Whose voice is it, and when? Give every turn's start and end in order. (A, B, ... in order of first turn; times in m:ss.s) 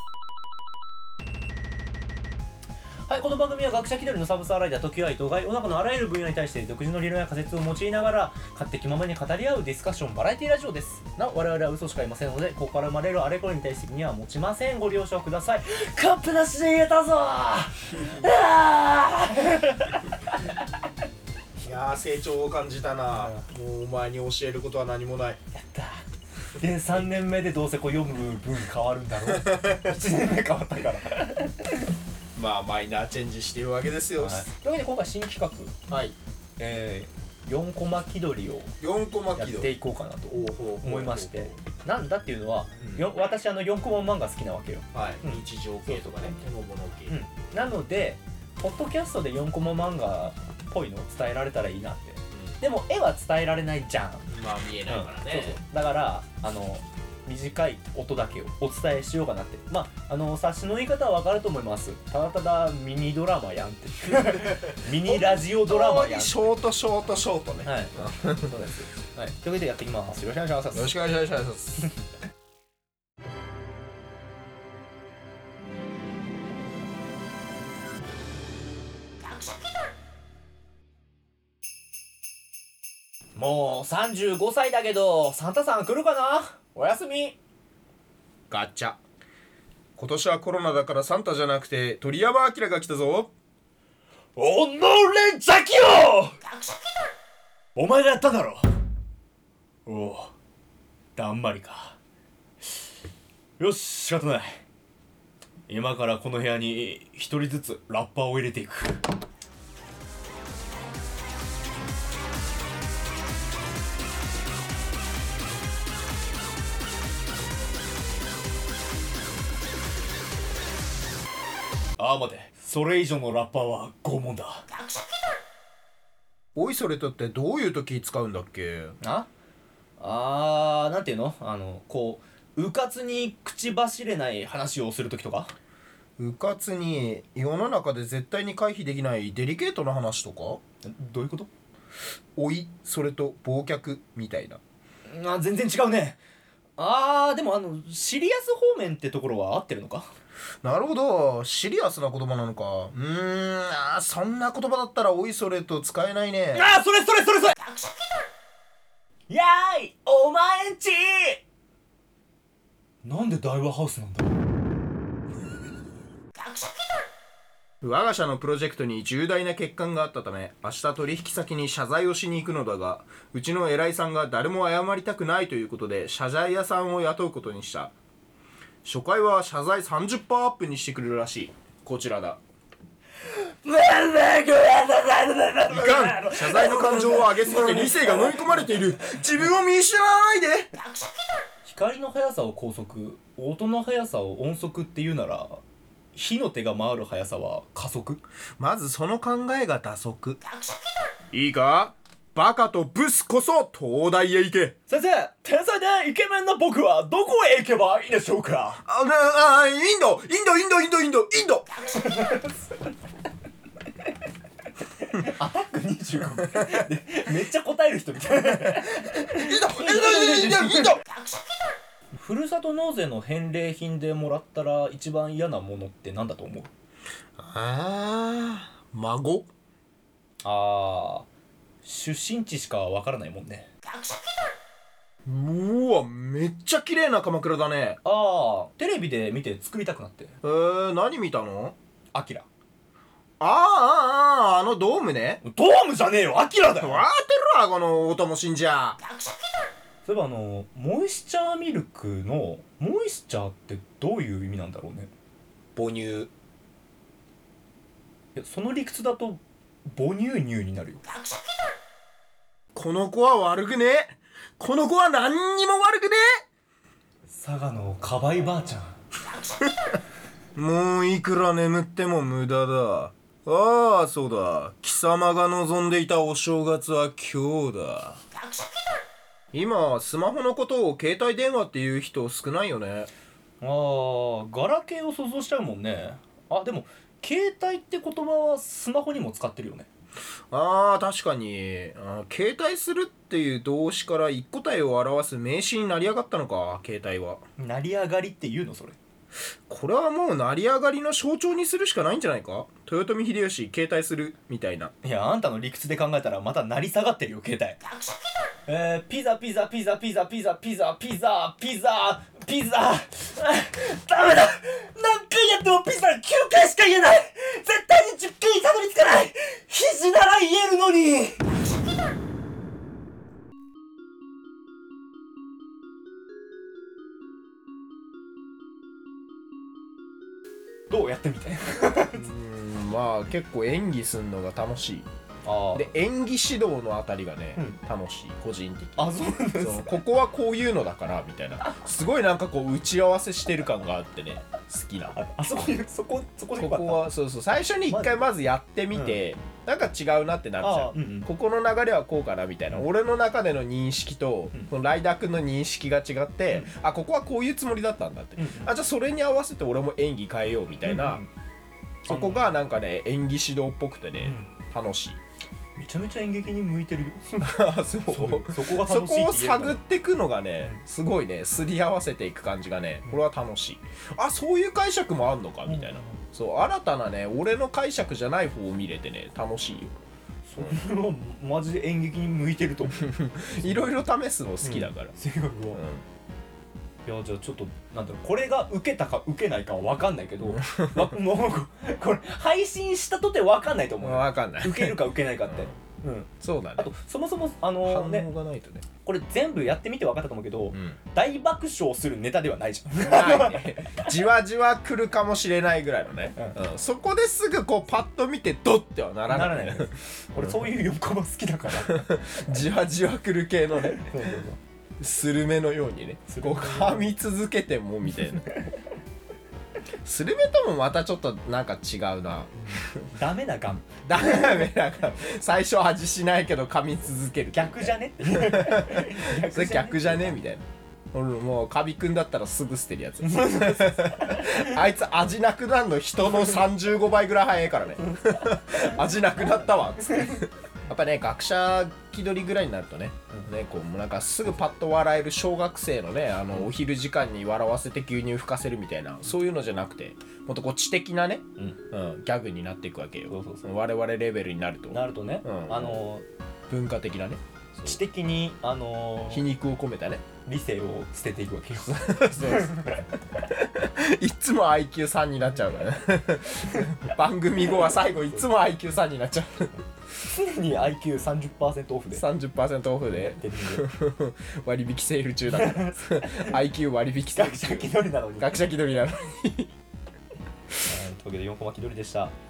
0:03.1-0:20.4 A
0:17.9-0:18.3 B
0:21.6-0:25.4 B
0:23.1-0:23.4 A
0:25.5-0:31.8 A
0:29.2-0:30.0 B
0:32.4-0:34.5 B
0:34.2-0:35.8 A
0:35.9-0:36.2 B
0:36.6-0:38.7 A
0:38.8-0:39.7 B
0:39.4-0:46.4 A
0:40.3-0:41.6 B
0:42.8-0:43.0 B
0:44.9-0:47.2 B
0:47.1-0:54.3 A
0:54.3-0:55.6 B
0:54.9-1:06.4 A
1:04.8-1:08.5 B
1:07.6-1:10.9 A
1:10.7-1:11.9 B
1:23.4-1:27.4 A
1:28.5-1:29.0 B
1:30.0-1:33.3 B
1:34.4-1:36.4 A
1:37.8-1:38.6 A
1:39.9-1:40.3 A
1:41.2-1:42.0 A
1:43.6-1:44.6 A
1:45.7-1:49.0 A
2:02.0-2:04.6 A
2:06.5-2:09.0 B
2:09.0-2:09.3 A
2:10.0-2:15.5 A
2:16.2-2:20.6 B
2:20.8-2:21.5 A
2:22.4-2:24.6 B
2:25.1-2:26.2 A
2:26.8-2:30.1 A
2:30.6-2:36.7 B
2:36.5-2:37.6 A
2:39.3-2:41.4 A
2:43.0-2:44.4 A
2:47.8-2:57.9 B
2:58.8-3:02.4 B
3:03.3-3:08.6 A
3:05.7-3:10.7 B
3:11.6-3:15.6 A
3:16.1-3:18.2 A
3:18.6-3:20.4 B
3:21.3-3:24.7 B
3:24.9-3:28.8 A
3:28.8-3:31.7 B
3:31.9-3:32.5 A
3:35.0-3:41.0 A
3:39.3-3:41.0 B
3:42.1-3:46.7 A
3:47.4-3:49.5 B
3:50.4-3:51.3 A
3:51.8-3:53.7 A
3:55.2-3:58.0 B
3:58.0-4:00.3 A
4:00.4-4:01.8 B
4:02.1-4:02.4 A
4:03.4-4:05.4 B
4:05.4-4:07.0 A
4:06.8-4:09.0 B
4:10.0-4:15.1 A
4:15.8-4:16.3 B
4:18.4-4:21.0 A
4:22.7-4:26.2 B
4:27.3-4:29.0 A
4:30.5-4:38.2 B
4:39.5-4:43.1 B
4:43.6-4:49.9 A
4:50.5-4:57.4 B
4:57.6-4:59.0 A
4:59.7-5:04.9 B
5:05.0-5:07.8 A
5:08.7-5:21.4 A
5:30.9-5:32.3 A
5:32.1-5:35.1 B
5:35.4-5:35.9 A
5:35.7-5:45.2 B
5:39.0-5:40.0 A
5:45.1-5:47.1 A
5:46.6-6:01.2 B
5:47.9-5:48.2 A
5:48.9-5:49.2 A
5:50.6-5:51.3 A
5:58.4-5:58.7 A
6:00.8-6:01.3 A
6:02.0-6:05.2 B
6:02.1-6:02.5 A
6:04.2-6:04.5 A
6:05.8-6:07.5 A
6:07.3-6:19.9 B
6:08.1-6:09.8 A
6:15.6-6:16.2 A
6:20.5-6:23.9 A
6:23.0-6:25.1 B
6:24.6-6:25.8 A
6:25.7-6:26.0 B
6:27.0-6:38.3 A
6:30.6-6:31.1 B
6:34.0-6:35.7 B
6:36.4-6:36.9 B
6:37.8-6:38.8 B
6:39.0-6:44.0 A
6:40.7-6:41.0 B
6:43.0-6:50.8 B
6:49.3-6:52.7 A
6:51.7-6:54.3 B
6:53.8-6:54.6 A
6:55.0-6:58.5 B
6:56.3-6:57.1 A
7:00.0-7:03.1 B
7:03.1-7:04.6 A
7:04.0-7:36.0 B
7:07.5-7:10.4 A
7:13.2-7:14.7 A
7:33.3-7:33.7 A
7:34.9-7:36.2 A
7:36.7-7:38.0 B
7:37.8-7:39.5 A
7:39.3-7:40.2 B
7:40.4-7:43.1 A
7:41.8-7:49.7 B
7:50.2-7:52.2 A
7:52.1-7:59.7 B
7:53.1-7:53.9 A
7:55.5-7:56.6 A
7:57.3-7:58.6 A
8:00.8-8:02.3 A